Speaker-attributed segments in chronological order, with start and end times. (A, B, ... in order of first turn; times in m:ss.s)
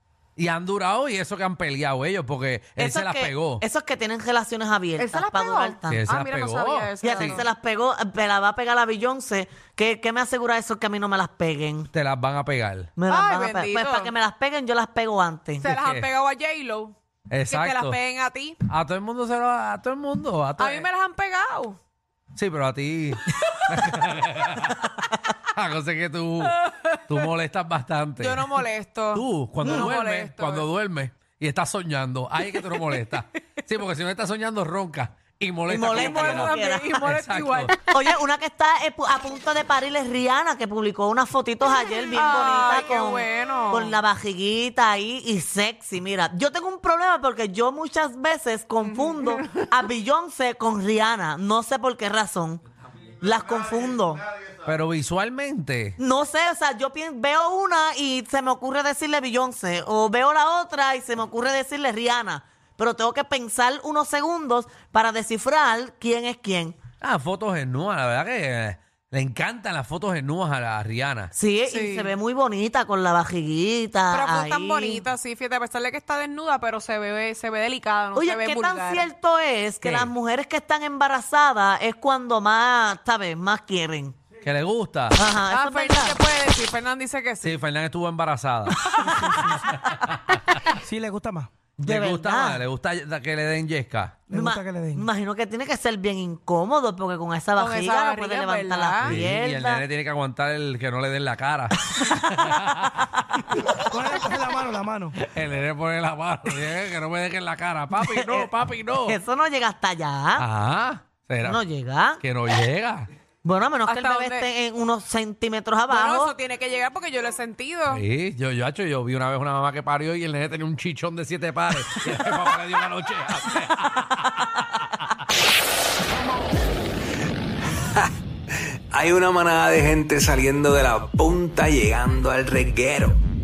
0:00.4-0:03.6 A
0:02.8-0:06.0 B
0:05.0-0:07.4 C
0:05.9-0:07.4 A
0:07.0-0:11.9 B
0:11.9-0:12.9 A
0:13.0-0:15.7 B
0:13.1-0:14.1 C
0:15.6-0:17.0 C
0:15.6-0:16.1 A
0:17.3-0:18.0 A
0:17.5-0:18.6 C
0:18.7-0:20.9 A
0:20.6-0:21.8 C
0:22.4-0:24.9 A
0:25.5-0:37.7 A
0:26.4-0:27.3 C
0:28.2-0:30.7 C
0:29.6-0:29.9 B
0:32.6-0:33.0 C
0:35.7-0:37.1 B
0:35.8-0:38.1 C
0:37.9-0:52.6 B
0:42.1-0:44.0 C
0:48.8-0:49.5 C
0:53.2-0:54.3 B
0:54.6-0:56.0 A
0:56.0-1:06.8 B
1:07.0-1:11.3 A
1:11.3-1:15.0 B
1:11.7-1:12.1 C
1:14.1-1:19.1 C
1:18.2-1:24.2 B
1:19.8-1:20.1 A
1:24.4-1:25.2 A
1:25.2-1:26.2 B
1:25.5-1:27.6 C
1:27.4-1:28.9 A
1:28.9-1:29.1 C
1:29.0-1:29.7 D
1:29.5-1:30.6 A
1:30.8-1:31.5 D
1:31.8-1:34.3 A
1:31.8-1:32.6 B
1:34.3-1:39.8 B
1:34.3-1:35.1 D
1:37.6-1:39.2 C
1:39.0-1:43.1 A
1:43.7-1:45.2 D
1:45.2-1:49.2 A
1:48.0-1:48.5 B
1:49.1-1:50.5 B
1:50.4-1:51.6 A
1:51.4-1:52.2 B
1:52.2-1:53.1 A
1:53.4-1:56.3 B
1:53.9-1:54.5 C
1:55.9-1:58.0 C
1:57.9-2:05.0 A
2:08.9-2:13.2 E